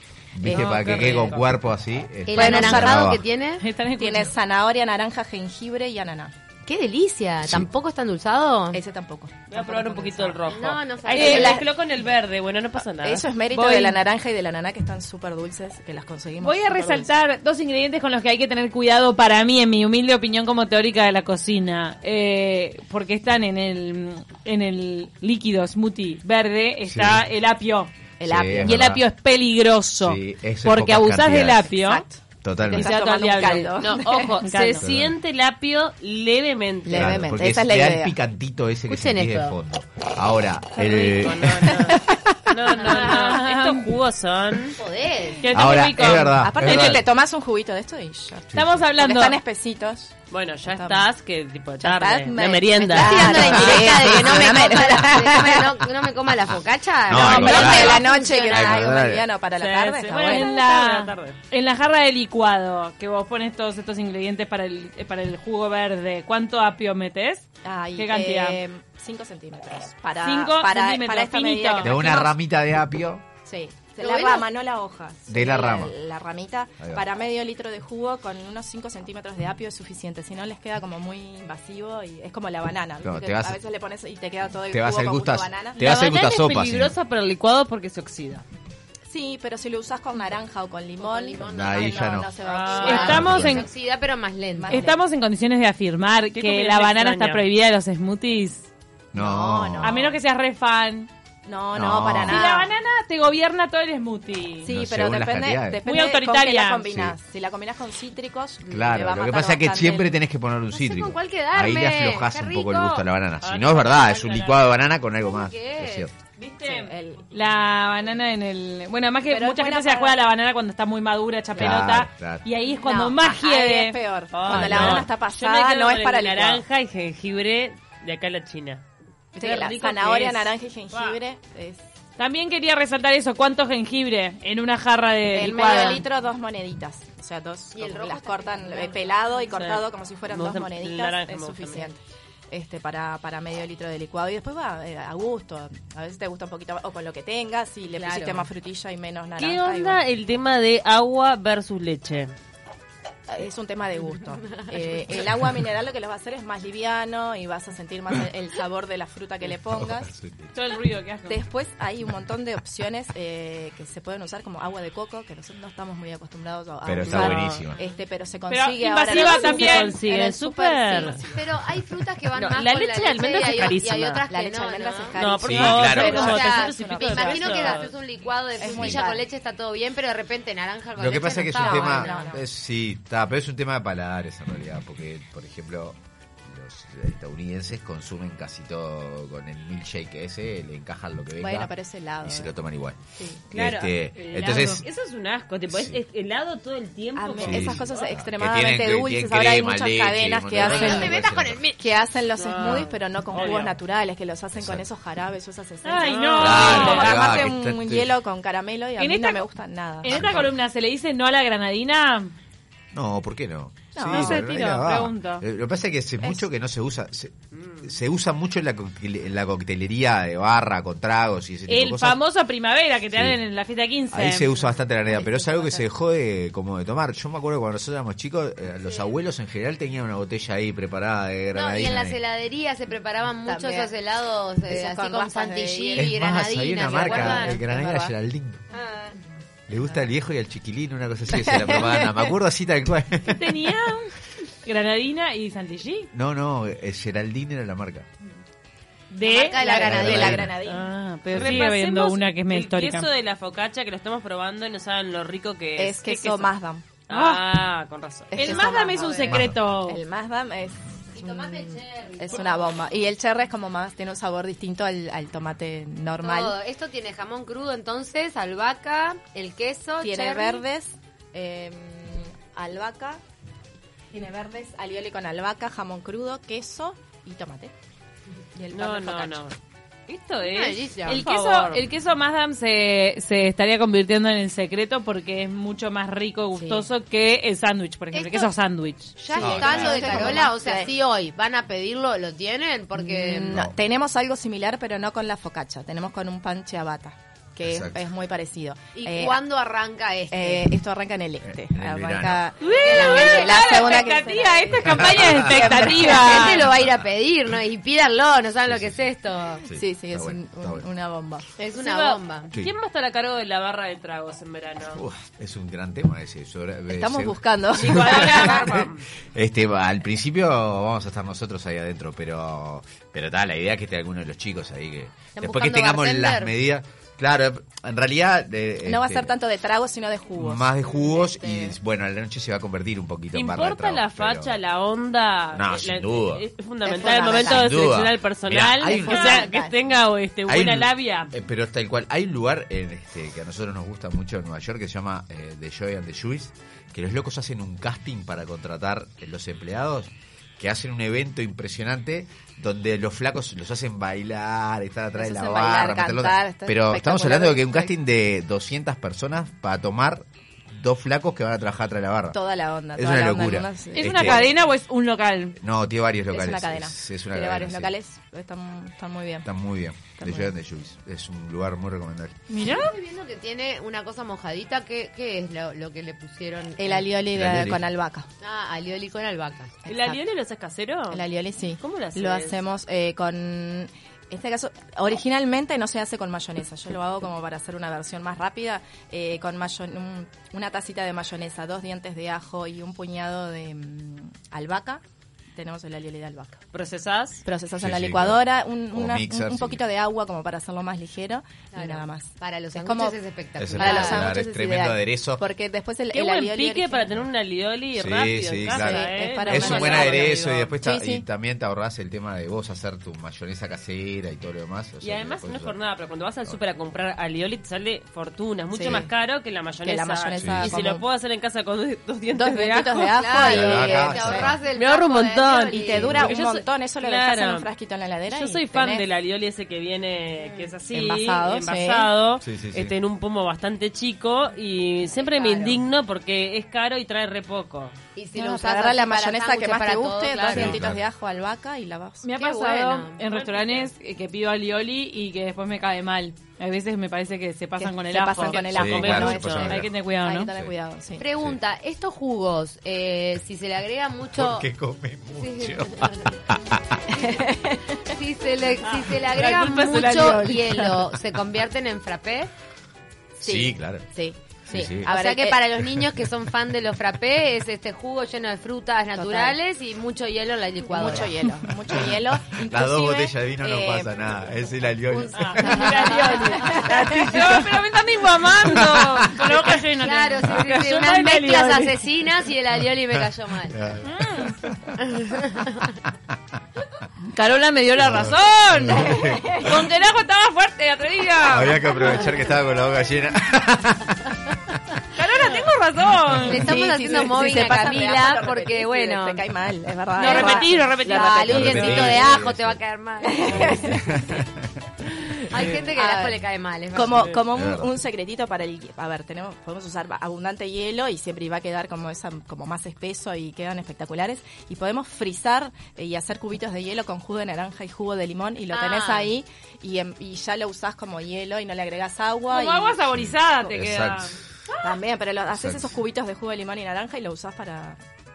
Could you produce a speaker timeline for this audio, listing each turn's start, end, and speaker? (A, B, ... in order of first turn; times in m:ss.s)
0:00.4-0:03.2 A
0:00.4-0:01.4 B
0:00.4-0:01.6 C
0:02.3-0:03.6 D
0:02.3-0:03.0 B
0:03.6-0:04.3 E
0:04.0-0:06.3 B
0:06.7-0:08.8 D
0:08.7-0:10.4 B
0:09.5-0:13.2 C
0:10.4-0:11.6 D
0:11.1-0:11.6 E
0:11.2-0:11.7 B
0:13.0-0:17.1 B
0:13.5-0:14.0 E
0:16.4-0:27.9 E
0:26.9-0:27.2 A
0:28.2-0:28.8 B
0:28.3-0:29.0 A
0:28.6-0:32.1 E
0:30.0-0:31.7 A
0:31.8-0:34.4 B
0:32.4-0:32.9 A
0:32.7-0:34.8 E
0:32.8-0:37.1 C
0:34.8-0:35.2 A
0:36.8-0:38.2 B
0:36.9-0:41.9 A
0:38.9-0:39.6 D
0:40.8-0:44.8 C
0:42.8-0:43.1 D
0:42.8-0:43.9 E
0:44.8-0:45.5 D
0:45.4-0:46.9 E
0:45.5-0:47.0 A
0:46.2-0:50.1 B
0:48.5-0:48.8 A
0:48.5-0:49.4 E
0:50.3-0:53.7 C
0:50.6-0:51.1 B
0:51.8-0:55.7 B
0:52.9-0:58.7 D
0:57.1-0:59.3 A
0:57.2-1:00.5 B
0:57.3-0:57.8 E
0:57.4-0:58.1 C
0:59.6-1:01.4 C
1:00.1-1:07.4 E
1:07.6-1:12.3 B
1:08.0-1:08.6 E
1:10.2-1:11.9 E
1:11.8-1:13.2 A
1:13.5-1:25.8 B
1:14.0-1:14.5 D
1:15.3-1:15.9 A
1:23.0-1:23.6 A
1:24.7-1:27.0 A
1:25.8-1:28.4 C
1:29.1-1:33.5 B
1:31.0-1:34.9 D
1:31.5-1:32.3 A
1:32.4-1:33.4 C
1:32.8-1:33.7 E
1:33.0-1:33.7 A
1:34.6-1:35.0 B
1:34.7-1:38.7 E
1:36.4-1:37.4 C
1:39.1-1:40.1 A
1:39.2-1:40.2 B
1:39.8-1:41.1 E
1:41.5-1:42.7 B
1:41.7-1:42.4 A
1:42.3-1:44.7 E
1:44.6-1:50.2 B
1:44.7-1:45.8 A
1:45.9-1:46.9 E
1:46.9-1:47.1 A
1:48.6-1:49.0 D
1:48.7-1:56.1 A
1:50.7-1:53.0 D
1:53.4-1:54.7 C
1:55.1-1:56.1 D
1:56.4-2:04.0 E
1:56.6-1:57.3 B
1:59.3-2:00.2 B
2:01.6-2:02.5 A
2:02.8-2:06.6 B
2:04.3-2:08.8 C
2:04.5-2:05.1 A
2:09.4-2:11.8 B
2:09.4-2:11.2 C
2:12.2-2:16.0 E
2:15.3-2:30.0 B
2:17.7-2:19.5 D
2:19.5-2:22.0 C
2:27.9-2:28.5 D
2:29.4-2:32.3 C
2:33.3-2:40.1 B
2:34.4-2:35.1 D
2:39.6-2:40.5 A
2:40.5-2:41.4 E
2:41.3-2:51.6 B
2:46.8-2:47.8 A
2:47.0-2:47.6 C
2:48.5-2:50.0 E
2:49.0-2:51.2 C
2:51.2-2:55.2 D
2:52.4-2:54.3 C
2:54.2-2:57.9 B
2:55.2-2:57.9 C
2:55.4-2:56.6 A
2:55.9-3:02.2 D
2:58.6-2:59.2 B
2:58.7-2:59.0 A
3:01.0-3:11.7 A
3:01.6-3:02.4 B
3:11.4-3:12.5 B
3:12.2-3:13.0 A
3:13.5-3:18.2 C
3:13.5-3:14.9 A
3:15.7-3:16.0 A
3:17.2-3:30.3 B
3:17.4-3:21.6 A
3:20.6-3:21.8 D
3:22.4-3:23.8 C
3:24.6-3:24.8 A
3:25.8-3:27.1 E
3:26.0-3:27.2 C
3:26.4-3:28.1 A
3:29.0-3:29.4 E
3:30.0-3:32.3 E
3:30.1-3:30.6 A
3:32.9-3:42.2 A
3:34.0-3:34.4 B
3:34.0-3:35.4 E
3:37.5-3:37.9 C
3:41.7-3:44.6 E
3:43.1-3:43.4 A
3:44.1-3:52.2 A
3:45.1-3:45.8 D
3:51.5-3:58.1 D
3:53.5-3:53.9 B
3:54.7-3:56.2 B
3:56.0-3:58.6 A
3:56.9-3:57.7 B
3:58.7-3:59.2 D
3:59.7-4:03.7 A
4:01.3-4:02.3 B
4:03.3-4:06.1 E
4:06.1-4:08.1 A
4:09.1-4:13.1 E
4:09.2-4:10.5 D
4:09.5-4:10.9 B
4:09.7-4:10.5 A
4:11.3-4:16.3 C
4:15.8-4:16.8 B
4:17.1-4:18.7 C
4:17.1-4:17.5 E
4:18.3-4:26.6 B
4:18.4-4:20.0 E
4:19.0-4:19.3 D
4:19.2-4:19.6 A
4:21.1-4:23.0 D
4:26.2-4:30.7 D
4:30.0-4:33.2 B
4:34.1-4:37.7 B
4:38.6-4:39.4 B
4:38.7-4:39.6 C
4:40.1-4:41.9 C
4:40.4-4:41.2 D
4:40.5-4:50.4 E
4:46.6-4:46.9 B
4:48.1-4:48.5 D
4:49.2-4:53.6 D
4:49.3-4:50.9 B
4:49.4-4:50.2 A
4:53.0-4:59.4 B
4:53.5-4:53.8 A
4:57.6-4:58.1 A
4:58.9-5:00.7 D
5:00.3-5:06.1 B
5:01.5-5:02.4 A
5:02.6-5:06.7 E
5:02.7-5:04.2 D
5:04.8-5:06.2 A
5:05.6-5:09.6 D
5:08.6-5:09.1 A
5:09.7-5:10.8 A
5:09.7-5:11.5 B
5:11.6-5:12.5 D
5:11.8-5:15.0 C
5:14.9-5:29.3 A
5:16.9-5:18.7 B
5:17.8-5:19.0 C
5:18.0-5:18.6 E
5:25.4-5:26.5 D
5:28.8-5:31.8 B
5:30.4-5:34.6 A
5:33.3-5:41.3 C
5:35.5-5:36.5 A
5:36.8-5:37.8 B
5:37.3-5:39.5 A
5:38.8-5:39.8 B
5:40.5-6:02.4 A
5:55.2-5:57.9 B
6:02.3-6:04.4 B
6:03.0-6:04.6 A
6:03.9-6:05.6 E
6:05.6-6:07.9 A
6:06.3-6:07.0 B
6:07.3-6:07.8 D
6:07.6-6:09.5 B
6:09.4-6:12.4 A
6:10.2-6:10.6 B
6:12.5-6:12.9 E
6:12.6-6:17.2 D
6:16.8-6:18.3 B
6:17.3-6:17.8 A
6:18.4-6:19.8 D
6:19.9-6:20.2 B
6:19.9-6:21.2 C
6:21.1-6:35.0 B
6:21.8-6:22.6 C
6:35.6-6:36.6 B
6:36.7-6:37.4 C
6:37.4-6:43.2 B
6:37.8-6:39.8 A
6:41.7-6:44.3 D
6:43.6-6:45.4 A
6:43.8-6:47.3 B
6:46.1-6:50.7 C
6:48.0-6:55.8 A
6:48.7-6:51.3 B
6:55.0-7:03.1 C
6:58.7-6:59.1 B
6:59.8-7:01.0 B
7:00.4-7:00.8 A
7:02.3-7:04.6 B
7:03.1-7:06.1 D
7:03.4-7:04.5 A
7:04.7-7:07.7 C
7:05.7-7:09.1 B
7:05.9-7:06.4 A
7:08.3-7:18.0 C
7:10.4-7:10.8 D
7:10.9-7:12.1 B
7:12.4-7:12.9 A
7:15.1-7:15.8 B
7:18.2-7:20.9 D
7:18.3-7:22.9 B
7:20.5-7:21.0 A
7:22.2-7:30.5 E
7:22.3-7:23.2 D
7:23.3-7:23.9 C
7:27.8-7:31.3 B
7:28.4-7:29.8 C
7:28.7-7:30.0 A
7:31.2-7:34.7 D
7:34.3-7:37.0 A
7:35.4-7:36.4 D
7:37.1-7:37.8 B
7:38.1-7:42.5 D
7:38.8-7:40.4 C
7:39.4-7:40.2 E
7:40.1-7:40.6 B
7:43.4-7:44.1 A
7:43.4-7:45.6 B
7:44.7-7:51.4 D
7:44.7-7:45.1 A
7:45.8-7:46.1 A
7:49.1-7:49.6 B
7:50.8-7:54.1 B
7:51.0-7:56.3 A
7:55.1-7:55.8 B
7:55.4-7:57.7 C
7:55.4-8:01.9 E
7:55.7-7:56.7 D
7:56.6-7:57.5 B
7:58.7-7:59.6 A
7:59.9-8:03.8 D
8:00.7-8:01.1 C
8:03.7-8:05.1 A
8:04.0-8:04.6 E
8:05.1-8:05.9 D
8:07.2-8:12.3 E
8:08.0-8:09.9 A
8:09.1-8:09.7 B
8:11.5-8:14.4 A
8:15.2-8:16.7 E
8:16.4-8:19.5 D
8:16.5-8:22.2 B
8:20.2-8:23.9 D
8:20.2-8:22.1 E
8:21.4-8:22.8 A
8:23.2-8:24.4 B
8:23.5-8:24.5 A
8:25.5-8:27.4 D
8:25.6-8:26.4 B
8:26.9-8:43.0 B
8:27.5-8:27.9 A
8:38.7-8:39.4 D
8:42.5-8:44.9 E
8:43.1-8:44.4 A
8:44.8-8:48.0 B
8:45.5-8:46.0 A